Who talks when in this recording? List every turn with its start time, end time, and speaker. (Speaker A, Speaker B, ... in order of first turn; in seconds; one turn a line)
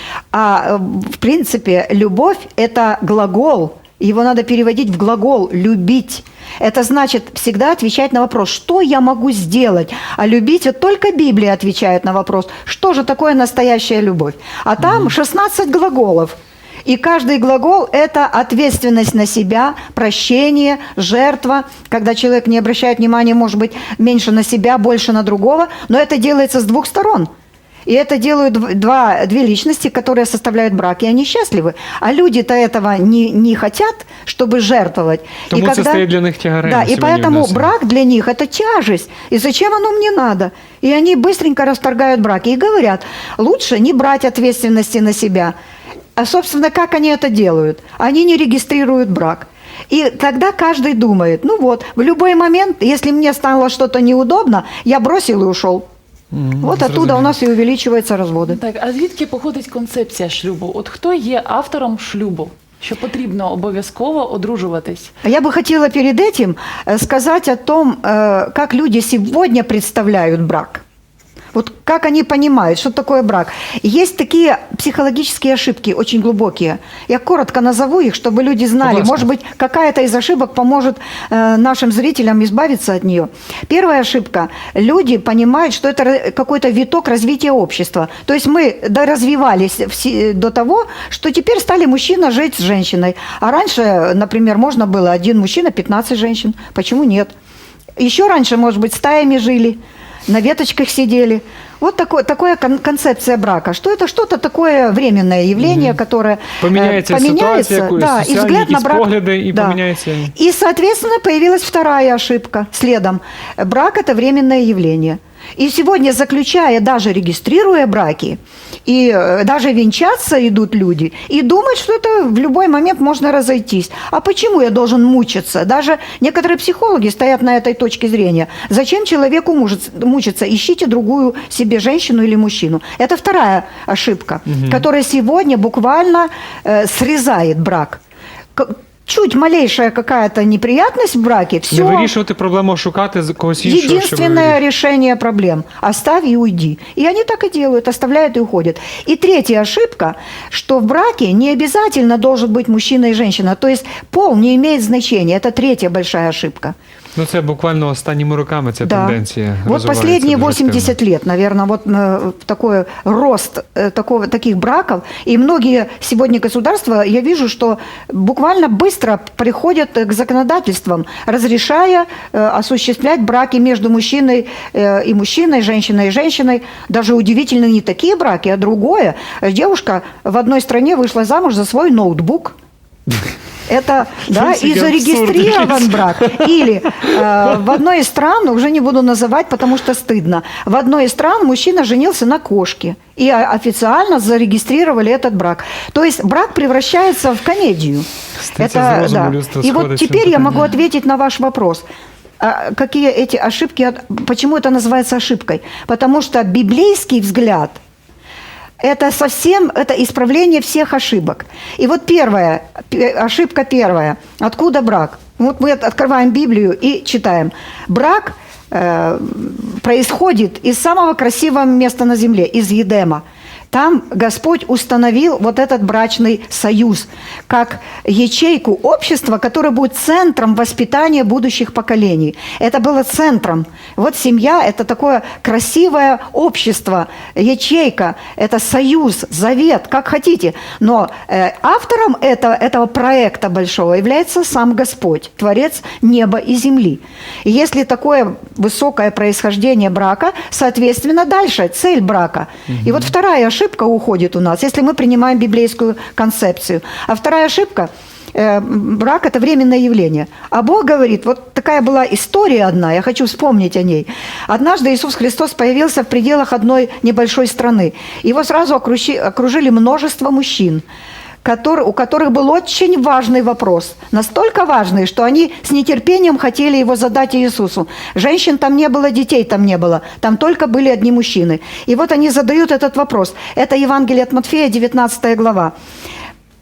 Speaker A: 0.3-27.3
Speaker B: 14.8-15.1
Speaker A: 27.9-36.1
Speaker B: 35.5-37.7
Speaker A: 36.6-45.5
Speaker A: 46.2-55.9
Speaker B: 56.3-57.3
Speaker A: 56.6-58.6
Speaker C: 58.5-65.1
Speaker A: 65.2-70.8
Speaker A: 71.5-97.3
Speaker B: 78.8-79.3
Speaker A: 98.0-109.8
Speaker B: 105.6-106.0
Speaker B: 106.6-110.3
Speaker A: 110.3-138.0
Speaker B: 134.5-134.8
Speaker A: 138.6-142.1
Speaker B: 141.7-144.6
Speaker A: 143.6-156.8
Speaker B: 157.2-160.9
Speaker A: 158.8-182.6
Speaker A: 183.7-198.1
Speaker B: 184.2-187.1
Speaker B: 198.4-200.7
Speaker A: 198.6-201.9
Speaker A: 202.4-207.8
Speaker A: 208.8-270.8
Speaker B: 252.7-252.9
Speaker A: 271.4-285.7